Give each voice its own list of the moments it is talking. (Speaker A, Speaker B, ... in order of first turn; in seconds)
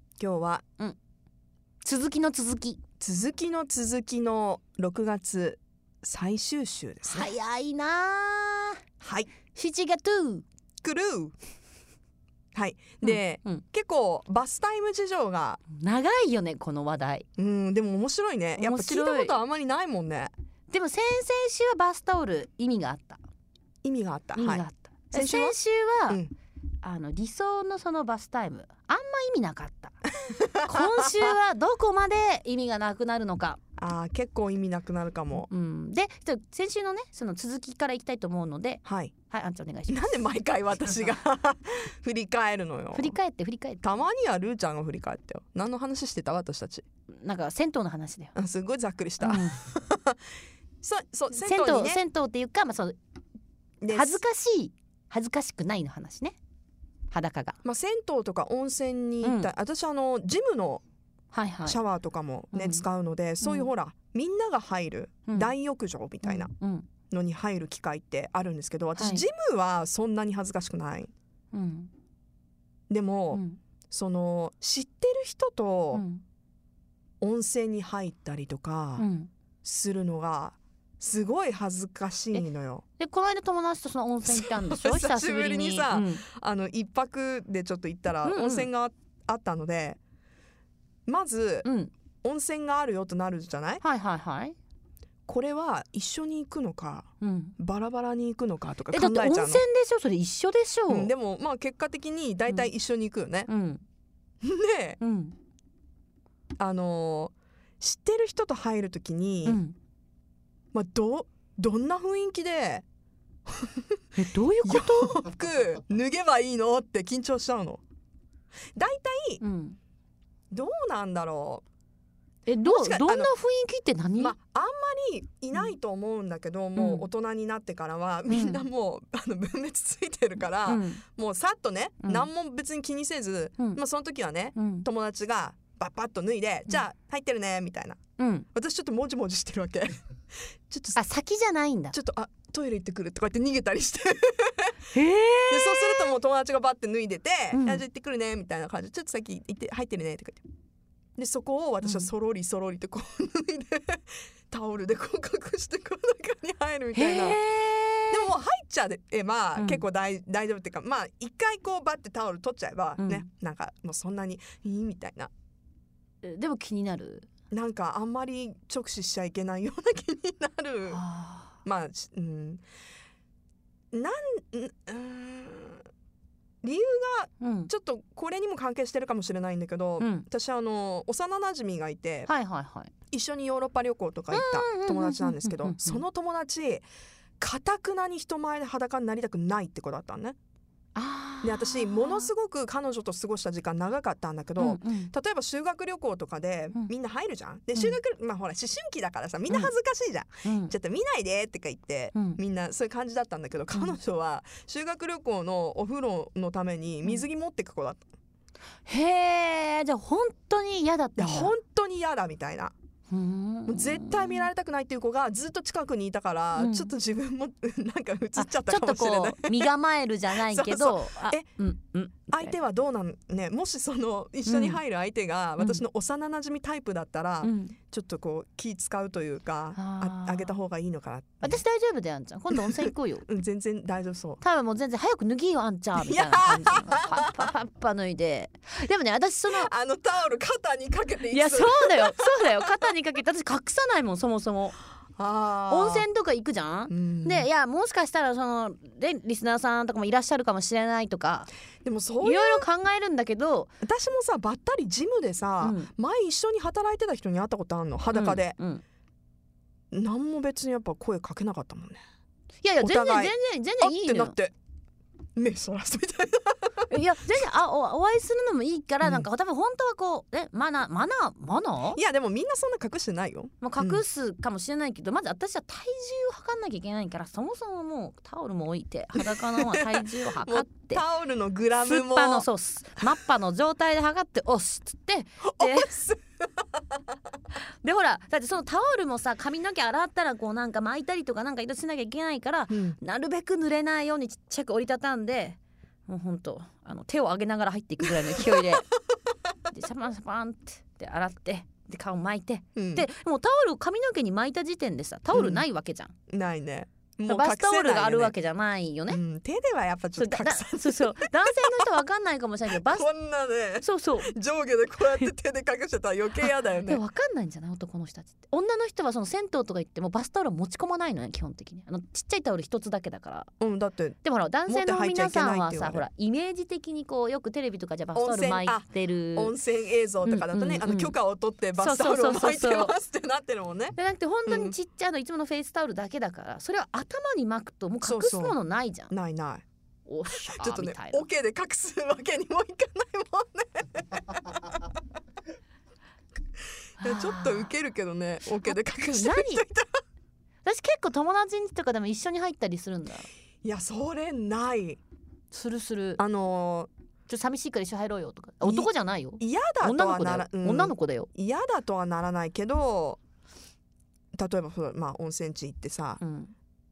Speaker A: 0.2-0.6, 3.0-7.3, 9.0-9.3, 10.8-11.3, 12.6-15.6, 17.4-20.3, 23.8-26.3, 30.2-31.4, 33.8-35.5, 38.9-39.1, 39.9-43.2, 43.8-46.9, 48.4-50.2, 50.8-52.0, 53.8-54.2, 57.6-60.8, 61.6-66.5, 67.1-71.1, 72.9-76.0, 77.2-79.1, 79.6-82.8, 84.3-90.0, 91.1-91.7, 92.2-93.8, 95.3-97.1, 97.6-99.6, 100.9-103.5, 104.4-105.0, 106.6-109.6, 110.7-112.8, 113.6-114.0, 114.6-117.8, 118.8-119.4, 120.5-121.6, 122.6-123.3, 124.2-138.0, 138.5-141.0, 141.9-144.9, 145.5-150.4, 151.2-157.4, 158.1-165.3, 167.5-171.0, 171.6-172.6, 173.9-175.8, 176.6-182.3, 183.1-186.9, 187.4-190.4, 191.4-208.1, 211.2-212.7, 213.7-219.8, 220.3-221.5, 222.3-231.6, 232.5-234.4, 236.0-237.5, 239.5-242.9, 245.2-246.1, 246.9-247.5, 251.8-252.7, 253.8-258.6, 259.9-262.0, 262.8-264.5, 265.4-267.4, 269.0-269.3, 271.9-274.0, 279.2-282.5, 285.4-286.8, 292.7-293.0, 298.0-298.6, 302.8-303.1, 305.3-305.6, 306.3-308.4, 309.1-311.9, 312.7-317.0, 323.6-326.1, 328.1-333.9, 334.5-334.8, 338.0-338.6, 339.1-339.6, 340.3-344.8, 347.0-349.9, 353.6-355.0, 356.2-356.9, 358.6-363.2, 364.4-366.2
Speaker B: 1.8-2.8, 7.1-8.8, 9.5-10.4, 13.0-13.6, 15.7-17.3, 18.6-19.4, 20.7-23.2, 24.4-26.2, 26.8-30.0, 30.6-33.6, 35.5-40.3, 42.9-43.9, 47.1-48.3, 49.2-49.6, 51.3-53.0, 53.9-56.4, 57.1-57.6, 59.2-59.5, 61.3-61.8, 62.5-62.9, 63.4-63.7, 65.3-65.5, 66.2-66.9, 69.0-69.3, 71.5-71.9, 73.3-73.6, 75.9-76.2, 79.0-79.3, 83.0-86.3, 88.2-88.7, 91.6-91.9, 93.8-94.5, 97.2-97.6, 98.9-101.1, 103.5-103.8, 105.0-105.4, 109.5-109.8, 114.2-115.2, 119.4-119.8, 122.5-124.4, 126.8-127.1, 128.3-128.7, 130.6-131.0, 132.0-132.3, 134.6-134.9, 138.2-138.5, 141.0-142.0, 144.9-146.2, 147.5-147.8, 151.8-152.1, 156.9-158.3, 159.6-159.8, 163.0-163.3, 166.2-167.3, 170.9-171.6, 177.4-177.7, 180.0-180.3, 182.3-182.9, 184.3-186.0, 190.9-192.3, 194.6-195.1, 199.5-199.7, 200.4-200.7, 202.1-202.4, 208.9-211.6, 213.1-214.5, 216.6-216.9, 218.4-222.6, 224.5-224.8, 225.6-225.8, 227.4-227.8, 229.8-230.6, 231.4-233.3, 234.4-239.7, 241.3-244.8, 245.7-251.5, 252.2-253.8, 255.6-255.9, 258.1-258.8, 262.6-264.4, 266.9-272.0, 273.6-281.0, 281.8-286.0, 287.8-295.6, 296.1-298.9, 299.7-306.1, 307.3-309.2, 310.2-313.1, 313.8-314.4, 315.0-315.3, 316.4-323.5, 324.2-329.6, 330.2-331.2, 331.8-333.0, 334.0-339.1, 340.1-341.3, 347.0-347.7, 348.5-349.6, 350.6-353.3, 355.5-356.2, 357.3-361.3, 366.2-366.5